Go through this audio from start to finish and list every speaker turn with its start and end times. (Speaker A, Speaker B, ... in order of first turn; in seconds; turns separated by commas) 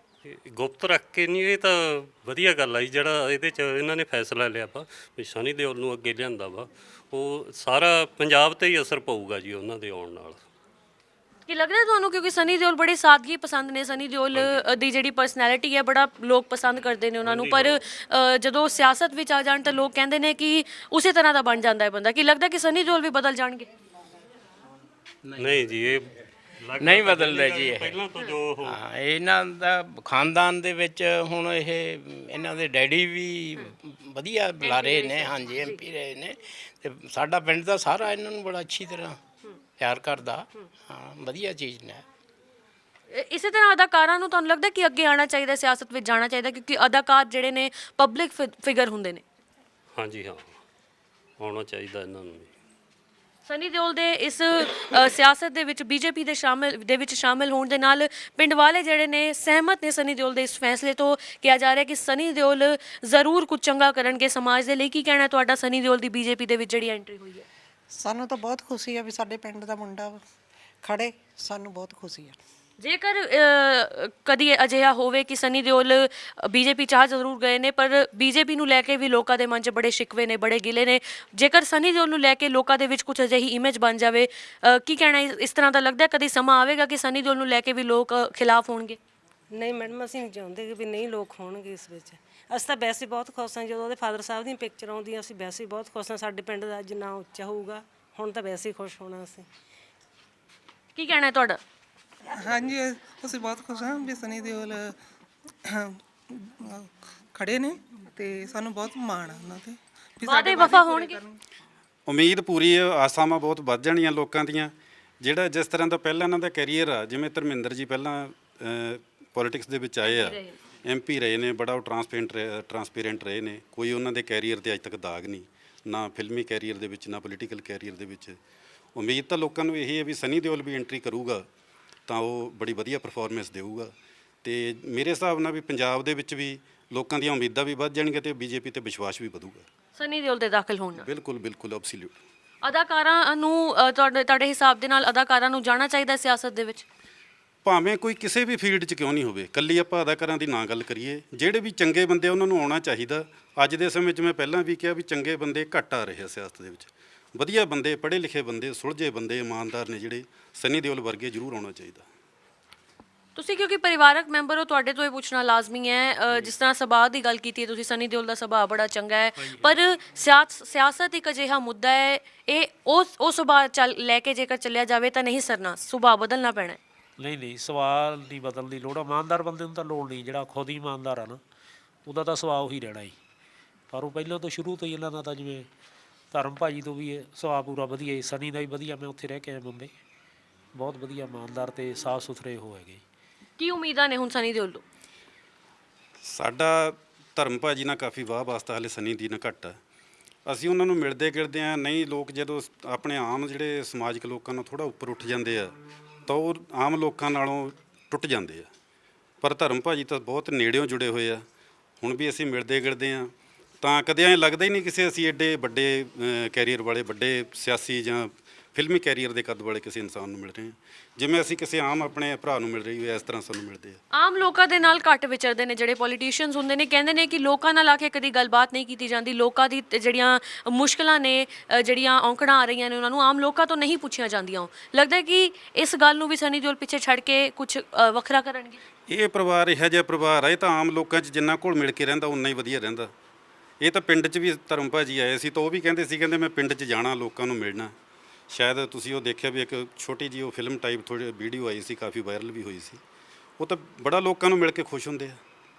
Speaker A: 0.2-10.4, Speaker B: 11.5-23.7, Speaker A: 14.3-14.6, Speaker A: 17.2-17.8, Speaker A: 25.4-28.8, Speaker C: 26.8-28.0, Speaker C: 28.6-39.2, Speaker B: 34.6-35.8, Speaker C: 39.8-42.0, Speaker B: 43.1-49.2, Speaker A: 50.0-50.5, Speaker A: 51.4-52.5, Speaker B: 53.5-67.5, Speaker D: 67.9-70.2, Speaker D: 70.8-72.4, Speaker B: 72.8-89.0, Speaker E: 89.5-99.5, Speaker B: 101.0-101.6, Speaker F: 102.4-104.9, Speaker F: 105.7-111.4, Speaker B: 110.2-111.2, Speaker G: 112.1-128.4, Speaker B: 120.0-120.6, Speaker G: 129.0-131.4, Speaker G: 132.1-133.9, Speaker G: 134.4-139.7, Speaker B: 139.9-141.1, Speaker G: 141.0-142.2, Speaker B: 142.6-146.8, Speaker G: 147.7-162.1, Speaker B: 163.3-176.8, Speaker H: 169.4-169.7, Speaker H: 177.2-181.4, Speaker H: 182.1-183.2, Speaker H: 183.9-185.7, Speaker H: 186.3-189.9, Speaker H: 190.7-193.0, Speaker B: 193.6-194.8, Speaker G: 196.2-199.8, Speaker G: 200.5-205.7, Speaker G: 206.3-208.7, Speaker G: 209.4-211.4, Speaker G: 212.0-224.0, Speaker B: 224.1-238.8, Speaker G: 239.1-243.1, Speaker G: 243.8-247.9, Speaker G: 248.5-253.0, Speaker G: 253.6-255.4